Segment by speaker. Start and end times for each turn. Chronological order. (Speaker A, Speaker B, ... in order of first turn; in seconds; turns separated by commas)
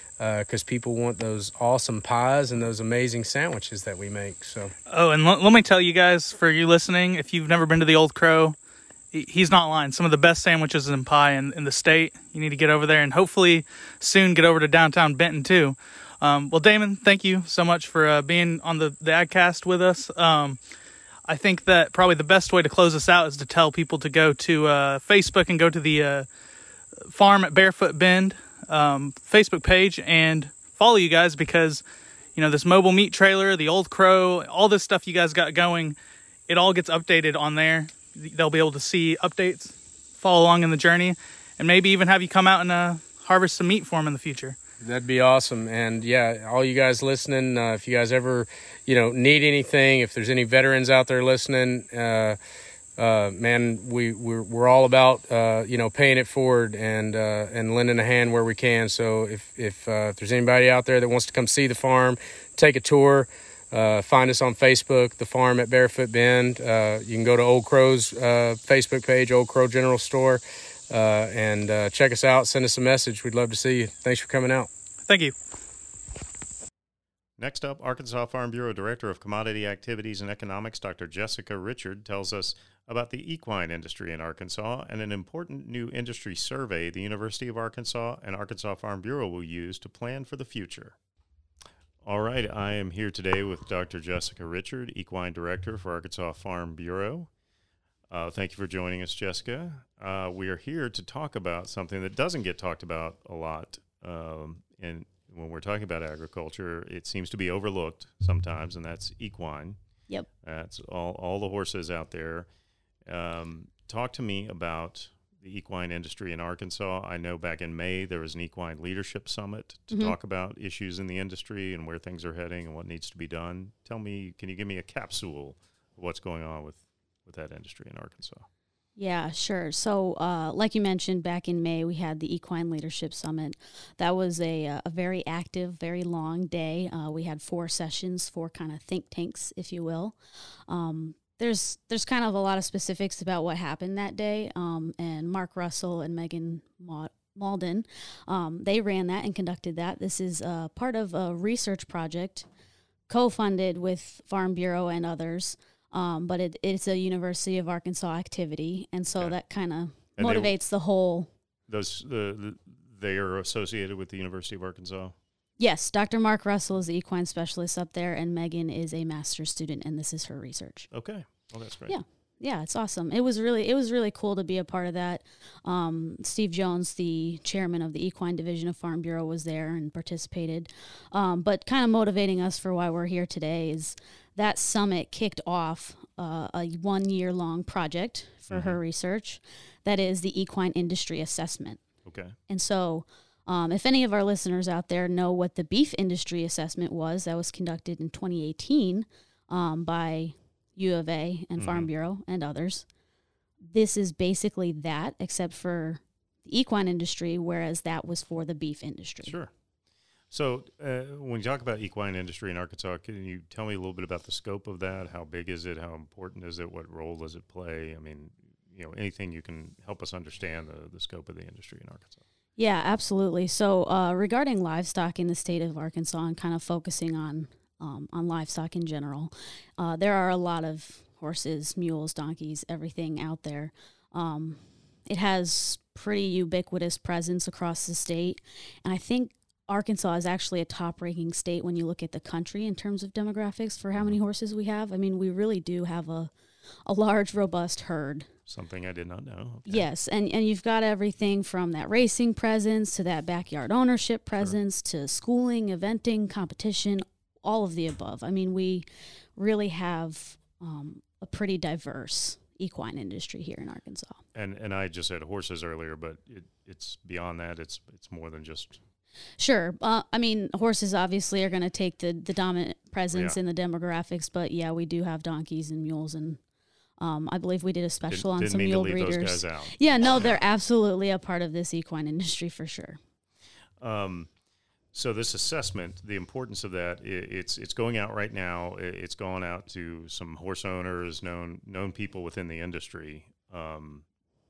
Speaker A: 0.2-4.7, Speaker B: 4.9-8.6, Speaker B: 9.1-20.6, Speaker B: 21.2-26.3, Speaker B: 27.0-31.8, Speaker B: 32.4-36.0, Speaker B: 36.5-44.5, Speaker A: 44.8-52.4, Speaker A: 53.0-74.7, Speaker B: 75.1-75.3, Speaker C: 77.4-91.0, Speaker C: 92.0-97.3, Speaker C: 98.1-109.8, Speaker C: 110.4-112.5, Speaker C: 113.0-128.5, Speaker D: 129.0-140.2, Speaker D: 140.7-152.5, Speaker D: 153.1-161.3, Speaker C: 160.2-160.5, Speaker C: 161.7-165.2, Speaker D: 165.6-170.9, Speaker C: 170.9-171.9, Speaker D: 171.9-191.8, Speaker C: 188.5-188.8, Speaker C: 192.1-192.3, Speaker D: 192.5-202.8, Speaker C: 201.6-201.9, Speaker D: 203.7-209.3, Speaker C: 209.2-209.5, Speaker C: 210.3-222.2, Speaker D: 222.6-246.3, Speaker D: 246.8-248.3, Speaker C: 248.5-249.9, Speaker D: 249.7-264.2, Speaker C: 264.3-268.8, Speaker D: 269.4-276.4, Speaker D: 277.0-283.0, Speaker C: 278.1-279.8, Speaker C: 283.8-284.3, Speaker C: 284.9-294.1